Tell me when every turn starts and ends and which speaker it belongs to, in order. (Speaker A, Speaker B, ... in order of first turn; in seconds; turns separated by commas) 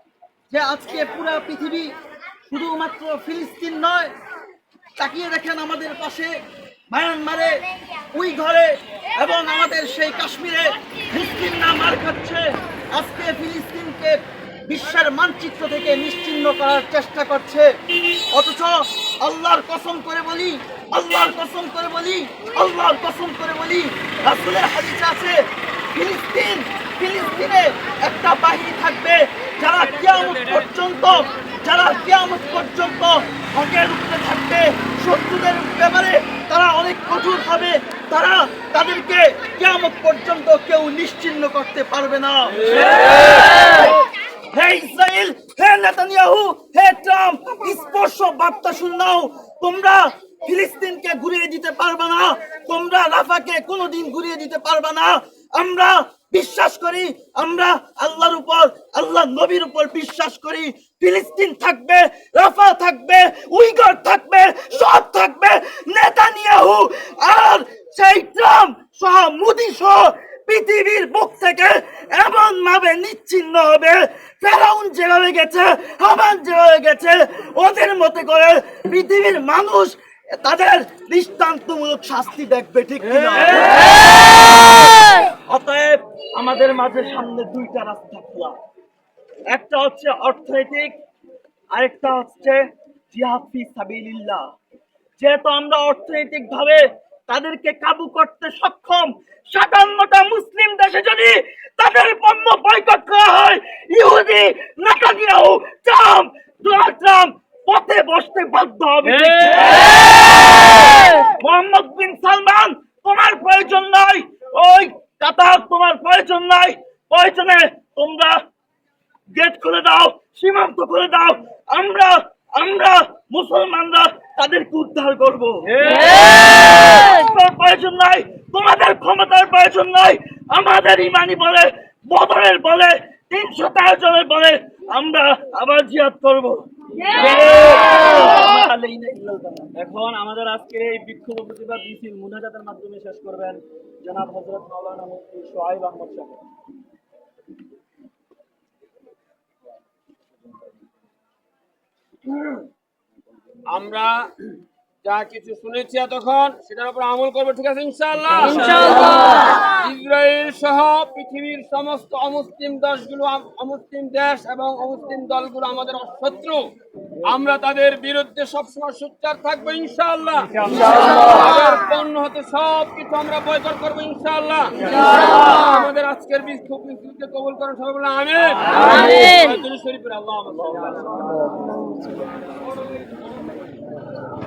Speaker A: 0.5-1.9, Speaker A: 2.5-4.1, Speaker A: 5.0-6.3, Speaker A: 6.9-7.6, Speaker A: 8.1-12.4, Speaker A: 12.9-14.2, Speaker A: 14.7-17.7, Speaker A: 18.3-25.4, Speaker A: 25.9-43.9, Speaker A: 44.5-84.5, Speaker A: 85.5-88.5, Speaker A: 89.5-90.9, Speaker A: 91.8-92.5, Speaker A: 93.1-94.4, Speaker A: 95.2-110.2, Speaker B: 109.0-110.0, Speaker A: 110.8-118.3, Speaker A: 119.3-125.5, Speaker B: 125.7-126.5, Speaker A: 126.6-136.6, Speaker B: 137.1-138.0, Speaker A: 137.1-139.7, Speaker B: 139.8-146.4, Speaker C: 153.7-154.3, Speaker C: 155.0-166.7, Speaker C: 167.2-181.5